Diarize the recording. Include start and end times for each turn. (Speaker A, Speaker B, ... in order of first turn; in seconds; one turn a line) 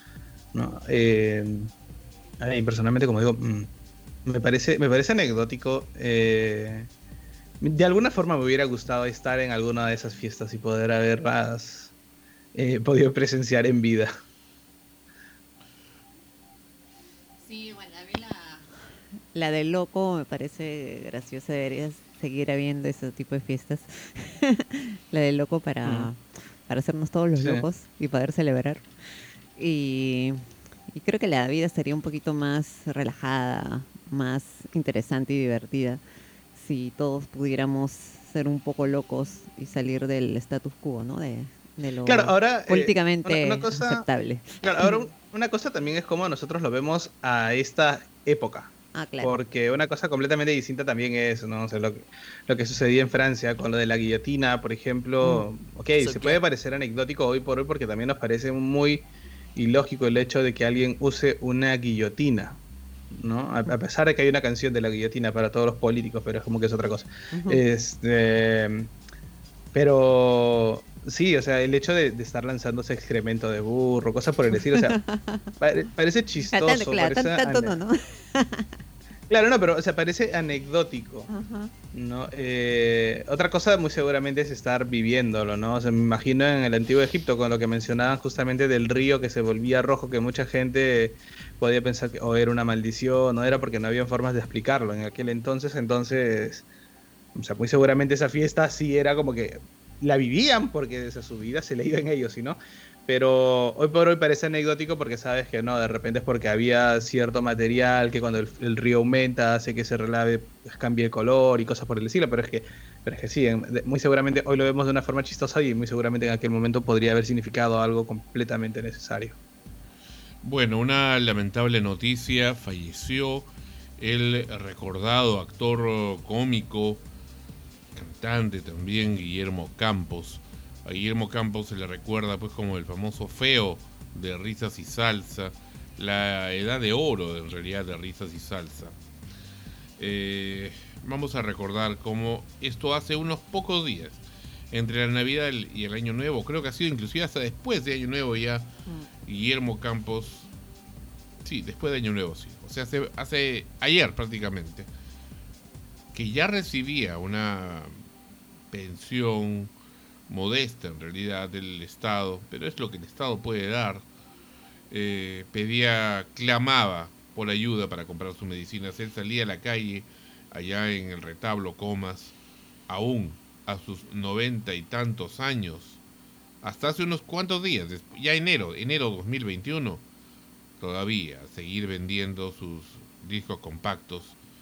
Speaker A: 0.5-1.7
Speaker A: 2.4-3.7
Speaker A: 4.2-6.9
Speaker A: 7.6-11.9
Speaker A: 12.5-14.1
Speaker B: 17.4-18.6
Speaker B: 19.3-28.9
Speaker A: 25.8-26.1
Speaker A: 27.4-27.6
Speaker B: 29.6-36.0
Speaker B: 36.5-45.1
Speaker A: 42.0-44.0
Speaker A: 44.6-59.0
Speaker B: 48.9-49.4
Speaker B: 55.2-55.5
Speaker B: 56.0-56.4
Speaker A: 59.5-62.6
Speaker A: 63.1-68.9
Speaker B: 67.3-67.6
Speaker A: 69.7-75.0
Speaker B: 74.5-75.5
Speaker A: 75.6-77.8
Speaker B: 76.4-78.7
Speaker A: 79.3-81.3
Speaker B: 81.3-81.7
Speaker A: 81.9-96.7
Speaker A: 97.4-119.4
Speaker C: 120.4-127.0
Speaker C: 127.9-138.9
Speaker C: 140.0-148.7
Speaker C: 149.2-150.5
Speaker C: 151.4-154.9
Speaker C: 156.1-158.0
Speaker C: 158.7-159.7
Speaker C: 160.3-164.0
Speaker C: 164.9-172.3
Speaker C: 172.9-176.0
Speaker C: 176.6-180.0
Speaker C: 180.8-184.4